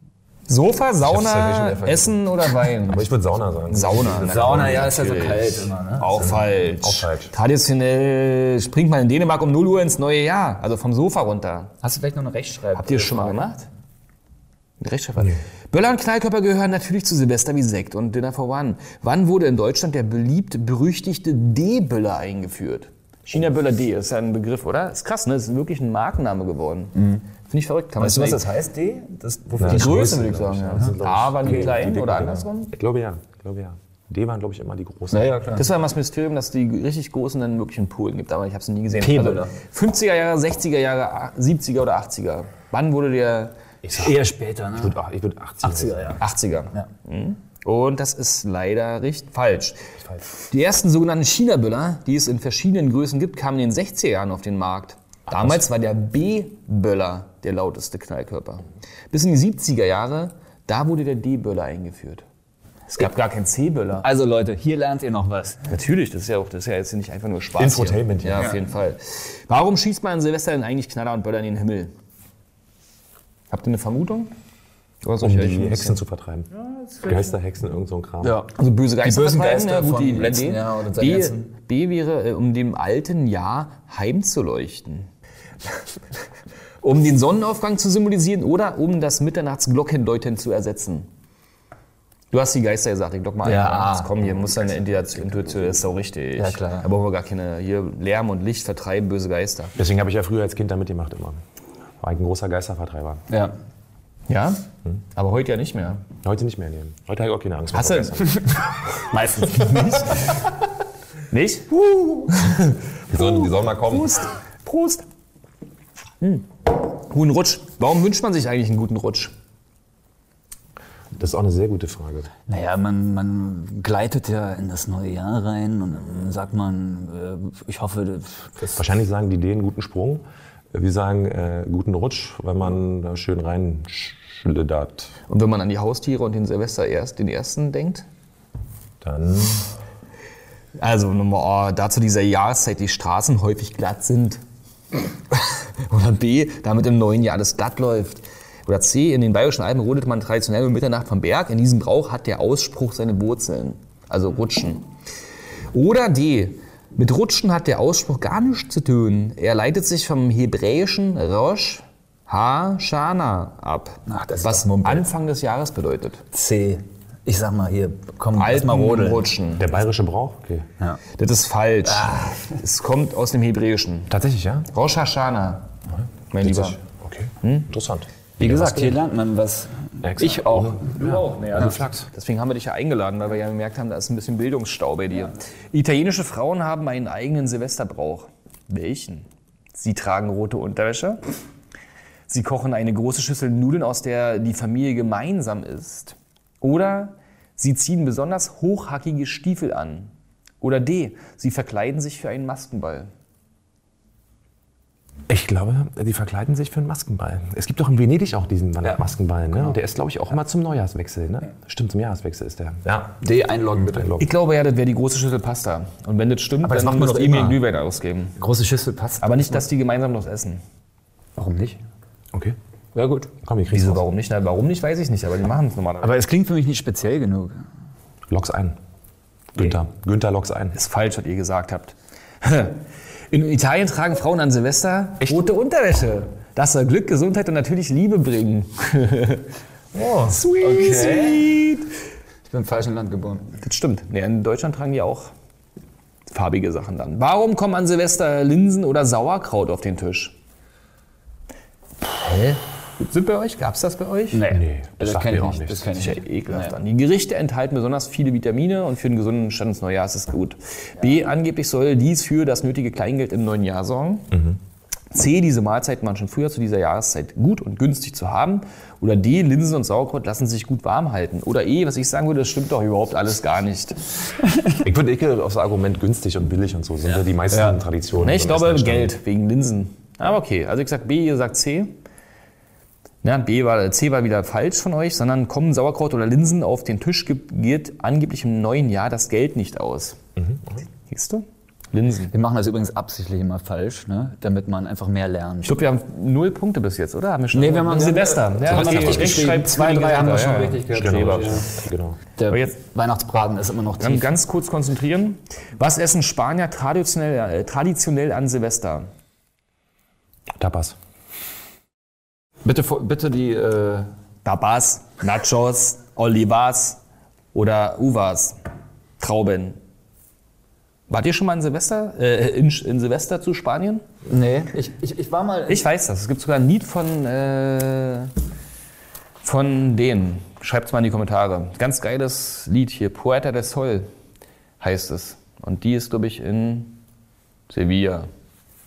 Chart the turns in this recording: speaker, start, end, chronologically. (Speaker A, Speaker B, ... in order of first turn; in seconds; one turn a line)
Speaker A: 0.5-3.1
Speaker B: 1.0-2.1
Speaker B: 2.8-5.0
Speaker A: 3.7-11.7
Speaker C: 4.2-6.4
Speaker B: 6.1-7.3
Speaker C: 11.8-13.4
Speaker A: 12.8-13.7
Speaker A: 14.8-28.4
Speaker C: 26.9-27.2
Speaker C: 28.0-30.1
Speaker B: 29.5-35.5
Speaker A: 29.6-32.7
Speaker C: 35.1-35.7
Speaker A: 35.5-43.5
Speaker C: 39.0-39.5
Speaker B: 43.8-44.2
Speaker C: 44.0-44.9
Speaker B: 44.7-46.2
Speaker C: 45.6-46.2
Speaker A: 46.2-49.8
Speaker A: 50.3-62.2
Speaker B: 55.3-55.5
Speaker A: 62.9-64.1
Speaker C: 64.0-65.6
Speaker A: 65.7-71.9
Speaker B: 67.6-68.5
Speaker A: 73.5-74.3
Speaker A: 75.0-76.0
Speaker B: 75.2-76.5
Speaker B: 77.0-78.4
Speaker C: 78.2-81.5
Speaker A: 78.5-85.1
Speaker A: 86.8-91.1
Speaker A: 92.3-99.7
Speaker C: 93.4-94.2
Speaker C: 96.4-96.9
Speaker B: 99.8-101.4
Speaker B: 102.0-103.2
Speaker C: 103.3-103.5
Speaker A: 104.3-104.6
Speaker A: 105.1-106.0
Speaker B: 106.2-108.6
Speaker A: 107.7-108.3
Speaker C: 109.1-110.3
Speaker A: 111.3-115.0
Speaker B: 113.1-114.1
Speaker A: 116.2-119.3
Speaker B: 121.1-122.3
Speaker C: 122.5-128.7
Speaker B: 128.7-135.1
Speaker A: 135.3-138.1
Speaker B: 139.0-139.7
Speaker A: 140.8-144.4
Speaker A: 145.3-154.8
Speaker A: 155.7-166.2
Speaker C: 164.1-165.1
Speaker C: 166.3-169.2
Speaker A: 168.3-169.7
Speaker B: 169.6-170.7
Speaker A: 171.2-174.1
Speaker C: 171.9-172.6
Speaker B: 174.1-174.7
Speaker A: 174.7-175.7
Speaker B: 175.9-179.0
Speaker A: 176.3-176.8
Speaker A: 177.4-177.7
Speaker C: 178.4-181.0
Speaker B: 180.0-182.1
Speaker A: 180.9-191.2
Speaker A: 192.3-203.1
Speaker B: 205.3-213.2
Speaker C: 213.2-214.1
Speaker B: 213.8-214.3
Speaker A: 214.2-218.3
Speaker C: 216.6-217.6
Speaker C: 218.4-219.6
Speaker A: 219.2-220.6
Speaker C: 221.4-221.8
Speaker C: 222.9-223.3
Speaker B: 223.4-224.0
Speaker A: 223.7-226.1
Speaker C: 226.0-227.5
Speaker B: 228.3-228.8
Speaker B: 229.5-230.8
Speaker A: 230.7-239.4
Speaker C: 239.9-241.5
Speaker A: 240.2-241.9
Speaker C: 242.4-243.5
Speaker A: 243.6-245.3
Speaker A: 246.3-250.3
Speaker A: 252.0-254.4
Speaker C: 254.3-256.8
Speaker B: 254.5-256.0
Speaker A: 255.9-264.3
Speaker B: 264.3-264.6
Speaker A: 265.1-274.0
Speaker B: 274.8-279.1
Speaker C: 277.5-277.8
Speaker A: 278.1-281.9
Speaker A: 283.2-290.2
Speaker B: 290.4-290.8
Speaker A: 291.1-292.3
Speaker C: 292.3-295.8
Speaker A: 295.6-301.5
Speaker C: 297.5-301.7
Speaker B: 298.6-299.6
Speaker B: 300.9-302.2
Speaker C: 302.4-304.3
Speaker A: 304.0-309.1
Speaker B: 310.6-310.9
Speaker C: 312.6-314.1
Speaker A: 314.4-317.0
Speaker A: 317.5-318.6
Speaker A: 319.2-319.8
Speaker A: 321.1-324.0
Speaker C: 324.2-325.9
Speaker A: 325.7-328.3
Speaker A: 329.4-334.1
Speaker A: 334.8-337.0
Speaker A: 337.7-338.3